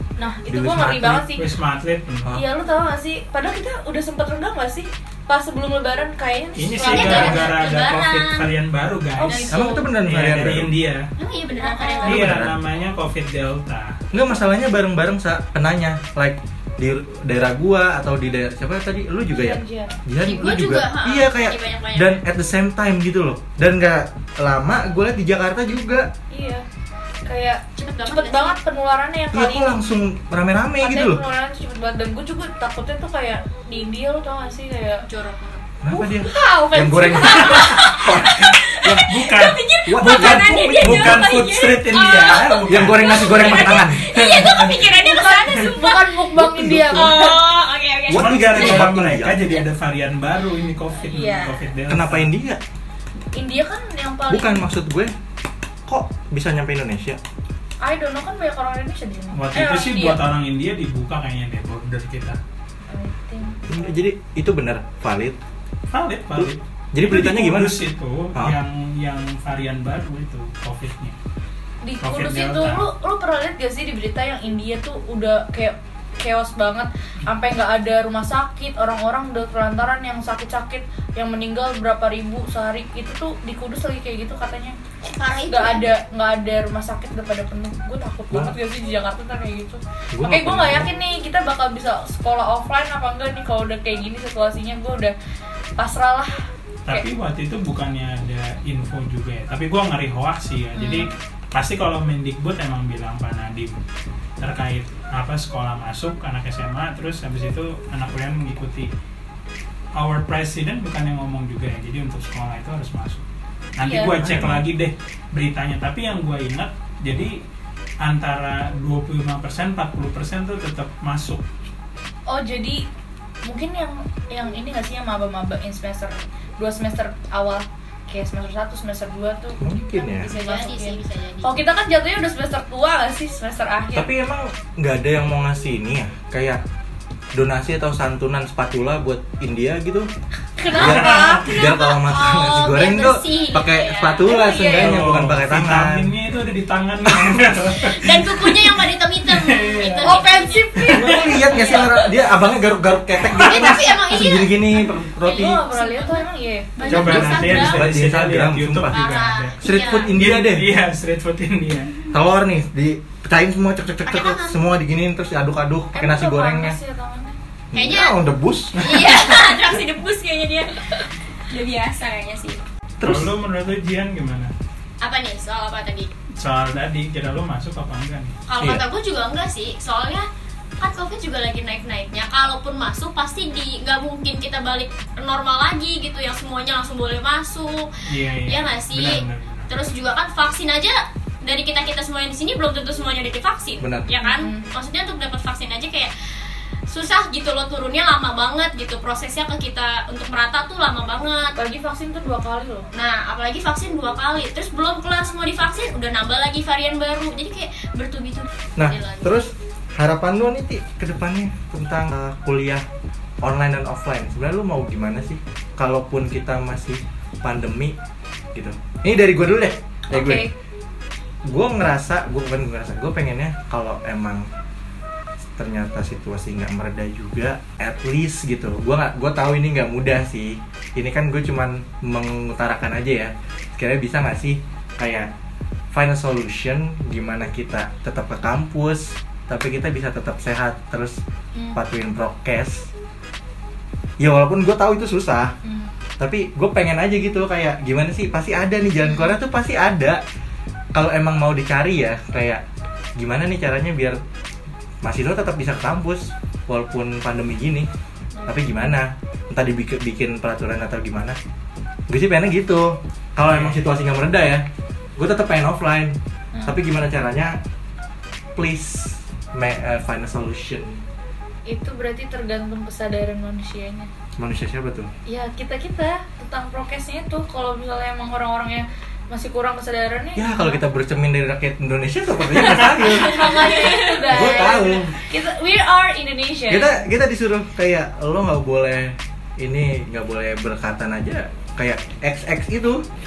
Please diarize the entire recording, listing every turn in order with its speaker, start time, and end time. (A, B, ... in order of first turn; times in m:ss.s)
0:00.2-0:01.4 A
0:00.5-0:01.2 B
0:01.3-0:02.4 C
0:02.3-0:07.6 A
0:06.6-0:11.1 C
0:06.8-0:08.5 D
0:09.2-0:09.9 A
0:09.2-0:09.5 D
0:09.5-0:10.7 B
0:11.2-0:12.2 D
0:11.6-0:12.2 A
0:12.0-0:14.0 C
0:12.0-0:12.6 B
0:14.1-0:26.1 B
0:19.3-0:20.0 A
0:20.2-0:22.2 D
0:26.3-0:26.6 A
0:27.2-0:29.8 A
0:27.8-0:28.6 D
0:29.3-0:31.2 B
0:30.8-0:35.0 A
0:35.0-0:35.6 D
0:35.8-0:39.1 B
0:35.9-0:38.1 A
0:37.4-0:46.3 D
0:38.2-0:44.9 C
0:39.8-0:41.3 B
0:42.6-0:44.0 B
0:44.8-0:47.4 A
0:46.3-0:47.2 B
0:46.9-0:48.9 D
0:48.1-0:49.4 B
0:48.1-0:52.3 C
0:51.1-0:51.6 A
0:51.9-0:52.6 B
0:53.3-0:54.7 A
0:54.3-0:55.1 B
0:55.9-0:57.2 B
0:57.8-1:00.2 A
0:59.3-1:02.4 C
1:02.9-1:03.9 A
1:03.7-1:05.4 B
1:05.9-1:11.2 C
1:06.3-1:07.8 B
1:11.8-1:24.8 A
1:12.0-1:12.9 C
1:25.1-1:25.9 D
1:25.5-1:35.1 A
1:30.1-1:30.9 B
1:35.8-1:36.3 A
1:36.8-1:43.8 C
1:40.7-1:41.1 A
1:44.4-1:48.9 C
1:49.9-1:53.2 C
1:53.8-1:57.4 C
1:53.8-1:54.2 A
1:54.2-1:54.6 B
1:58.0-2:01.4 C
2:02.3-2:02.8 A
2:03.4-2:14.1 A
2:09.6-2:10.3 B
2:10.2-2:11.5 D
2:13.9-2:16.6 B
2:17.3-2:20.1 B
2:20.6-2:22.0 A
2:20.7-2:26.1 B
2:20.8-2:21.4 C
2:21.9-2:24.5 D
2:24.2-2:25.0 A
2:24.7-2:30.2 C
2:27.1-2:27.4 B
2:27.7-2:30.7 D
2:30.0-2:32.0 A
2:30.8-2:31.7 C
2:30.9-2:35.6 B
2:33.3-2:37.9 D
2:33.4-2:33.8 C
2:35.2-2:37.4 A
2:36.8-2:42.0 C
2:37.0-2:40.7 B
2:38.9-2:40.1 D
2:42.1-2:46.8 B
2:44.0-2:44.6 D
2:45.9-2:47.4 A
2:47.7-2:49.0 B
2:47.7-2:48.2 D
2:48.8-2:50.9 D
2:51.4-2:52.6 D
2:53.0-2:53.3 B
2:53.0-2:54.5 C
2:55.0-2:56.1 D
2:56.4-2:58.3 C
2:58.5-3:00.3 D
3:00.8-3:07.9 D
3:08.0-3:09.7 C
3:08.4-3:16.1 D
3:13.8-3:14.1 B
3:14.2-3:14.6 A
3:16.9-3:21.6 D
3:21.6-3:22.9 A
3:22.9-3:29.4 D
3:28.8-3:32.8 B
3:33.4-3:38.0 B
3:38.5-3:40.4 B
3:40.1-3:40.5 A
3:41.5-3:44.5 B
3:45.6-3:55.3 B
3:55.9-4:01.2 B
4:01.7-4:02.9 B
4:04.2-4:05.5 B
4:05.6-4:05.9 A
4:06.2-4:10.2 B
4:09.0-4:09.3 A
4:10.9-4:12.6 B
4:13.2-4:14.2 B
4:15.0-4:17.9 B
4:18.4-4:21.4 B
4:22.1-4:24.6 B
4:23.4-4:23.9 C
4:25.2-4:27.6 B
4:28.6-4:31.0 B
4:31.7-4:34.1 A
4:34.4-4:35.1 B
4:35.2-4:40.8 A
4:40.4-4:45.2 B
4:42.9-4:47.0 A
4:43.2-4:44.2 D
4:46.7-4:53.0 B